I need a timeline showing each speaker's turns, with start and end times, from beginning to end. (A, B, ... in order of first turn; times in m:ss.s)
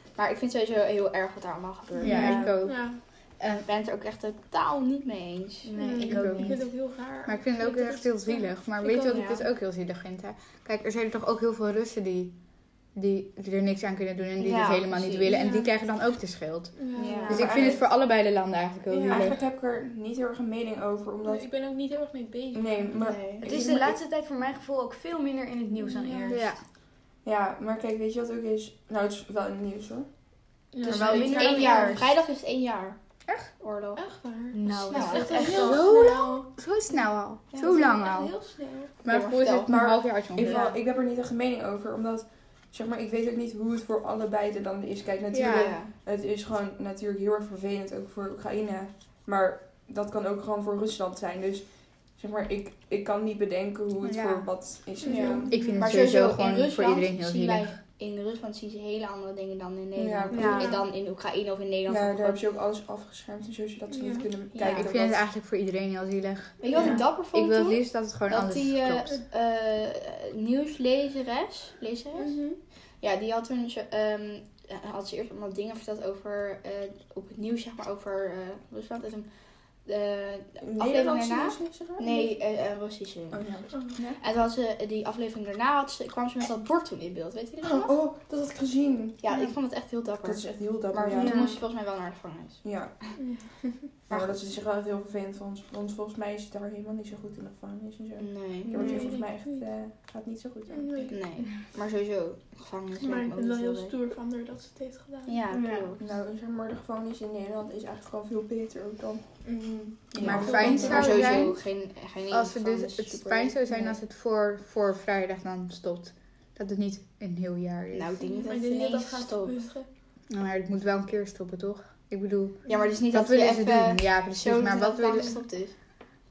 0:00.2-0:02.5 A
0:02.0-0:03.7 B
0:02.0-0:03.0 C
0:02.1-0:02.5 D
0:03.6-0:05.7 A
0:05.6-0:06.6 D
0:05.8-0:09.2 C
0:06.0-0:12.3 B
0:09.1-0:09.4 A
0:12.9-0:16.8 B
0:14.4-0:15.3 A
0:15.2-0:15.7 C
0:16.8-0:17.4 C
0:17.0-0:17.8 E
0:17.0-0:17.5 A
0:17.1-0:17.5 D
0:17.3-0:19.4 B
0:18.9-0:19.4 C
0:19.1-0:21.5 E
0:21.2-0:22.9 C
0:22.5-0:24.0 E
0:22.9-0:23.7 A
0:23.4-0:26.5 D
0:25.8-0:26.4 C
0:26.3-0:26.6 B
0:27.2-0:30.1 E
0:30.7-0:32.0 C
0:30.8-0:31.4 E
0:30.8-0:32.1 D
0:30.9-0:33.0 A
0:33.5-0:34.0 A
0:34.0-0:36.5 C
0:34.5-0:35.9 D
0:34.9-0:35.6 A
0:35.5-0:38.4 B
0:37.5-0:37.9 A
0:37.6-0:39.0 C
0:39.0-0:40.7 B
0:39.0-0:39.8 A
0:39.6-0:55.7 E
0:45.3-0:45.7 B
0:45.4-0:45.9 A
0:54.0-0:54.8 B
0:55.0-0:55.9 C
0:55.1-1:02.4 A
0:55.5-0:57.8 B
0:59.9-1:00.8 E
1:00.3-1:00.8 D
1:00.4-1:00.9 C
1:01.9-1:05.2 E
1:03.9-1:04.3 C
1:04.5-1:04.9 A
1:04.6-1:09.1 B
1:06.6-1:12.4 A
1:06.7-1:07.0 E
1:12.2-1:12.6 C
1:13.0-1:19.3 A
1:19.8-1:28.0 A
1:20.6-1:22.4 E
1:23.3-1:24.2 E
1:23.7-1:24.0 C
1:27.6-1:29.3 E
1:29.2-1:33.2 A
1:30.2-1:31.5 E
1:31.1-1:31.6 D
1:32.6-1:33.0 E
1:33.2-1:33.8 C
1:34.1-1:41.2 E
1:38.2-1:39.1 A
1:38.7-1:39.1 D
1:38.8-1:39.7 C
1:40.7-1:41.1 C
1:41.1-1:43.9 A
1:43.0-1:45.6 C
1:45.2-1:46.0 A
1:45.5-1:45.9 D
1:46.0-1:51.1 E
1:49.4-1:51.5 C
1:50.2-1:54.0 A
1:50.2-1:51.6 B
1:52.3-1:58.2 B
1:57.9-1:59.7 A
1:58.2-1:59.9 C
2:00.3-2:05.4 B
2:02.6-2:02.9 C
2:02.7-2:05.7 A